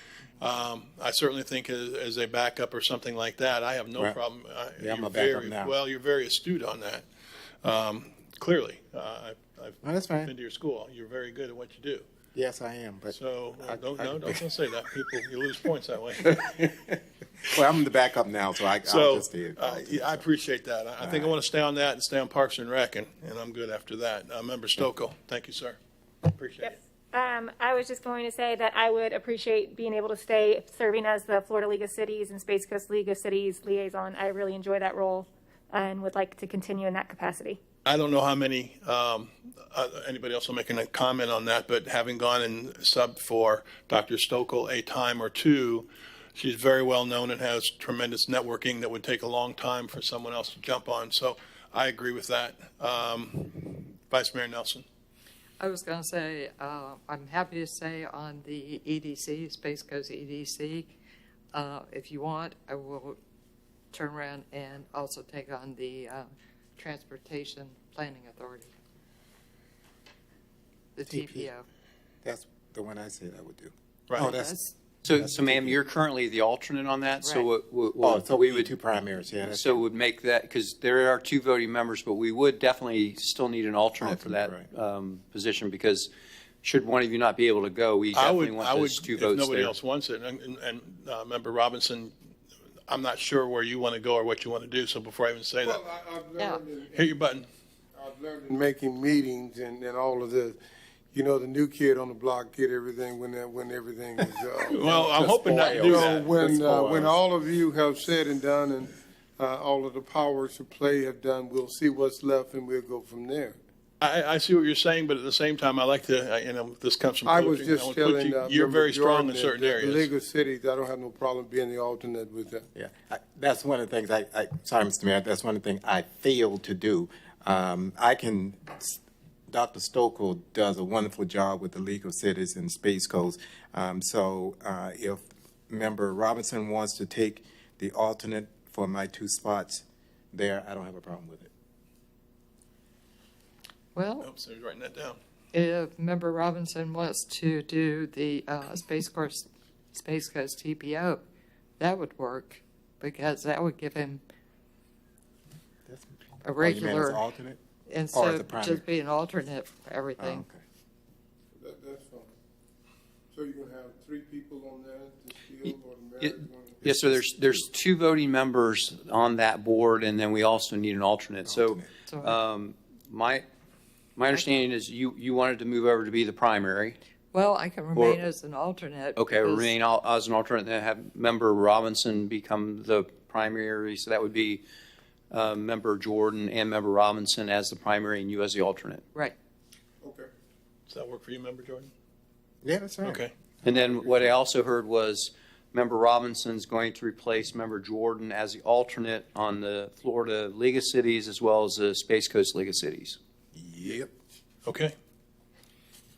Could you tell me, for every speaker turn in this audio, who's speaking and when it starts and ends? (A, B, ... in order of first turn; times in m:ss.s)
0:00.4-0:07.0 A
0:04.8-0:05.7 B
0:07.6-0:12.0 A
0:09.8-0:10.3 B
0:12.3-0:14.4 B
0:13.1-0:16.7 A
0:16.2-0:16.9 B
0:17.5-0:20.2 B
0:18.8-0:26.8 A
0:21.0-0:21.4 B
0:26.6-0:37.6 C
0:37.8-0:54.8 A
0:55.6-1:01.0 D
1:01.5-1:03.2 D
1:03.9-1:08.7 D
1:10.9-1:11.6 D
1:11.1-1:11.5 B
1:12.2-1:14.6 B
1:14.1-1:14.3 A
1:14.2-1:14.7 D
1:15.0-1:18.7 E
1:15.1-1:15.8 B
1:17.2-1:17.5 D
1:18.0-1:19.8 B
1:19.4-1:26.1 E
1:24.0-1:24.6 B
1:26.6-1:29.7 E
1:28.1-1:32.1 A
1:32.9-1:35.8 A
1:35.6-1:37.2 F
1:36.9-1:37.4 A
1:37.9-1:40.6 F
1:41.1-1:53.6 F
1:44.7-1:46.3 A
1:44.7-1:47.2 B
1:54.0-2:00.1 A
1:57.2-2:02.6 F
2:02.7-2:21.5 B
2:23.9-2:24.3 D
2:24.2-2:25.2 A
2:25.5-2:31.2 D
2:31.8-2:34.2 D
2:35.9-2:37.6 B
2:36.4-2:37.3 D
2:37.8-2:40.4 D
2:38.1-2:38.8 B
2:40.2-2:40.6 B
2:41.5-2:42.3 F
2:43.3-2:46.9 F
2:46.2-2:53.4 E
2:46.8-2:47.6 B
2:51.4-2:51.9 B
2:52.1-2:52.4 D
2:54.2-2:57.0 E
2:54.3-2:54.6 D
2:57.3-2:59.8 D
2:57.9-2:58.3 E
2:59.2-3:04.6 E
3:05.3-3:09.0 E
3:10.0-3:10.3 F
3:10.9-3:11.9 A
3:12.6-3:13.2 B
3:13.0-3:13.3 A
3:13.6-3:23.2 E
3:23.5-3:24.1 B
3:24.6-3:24.9 A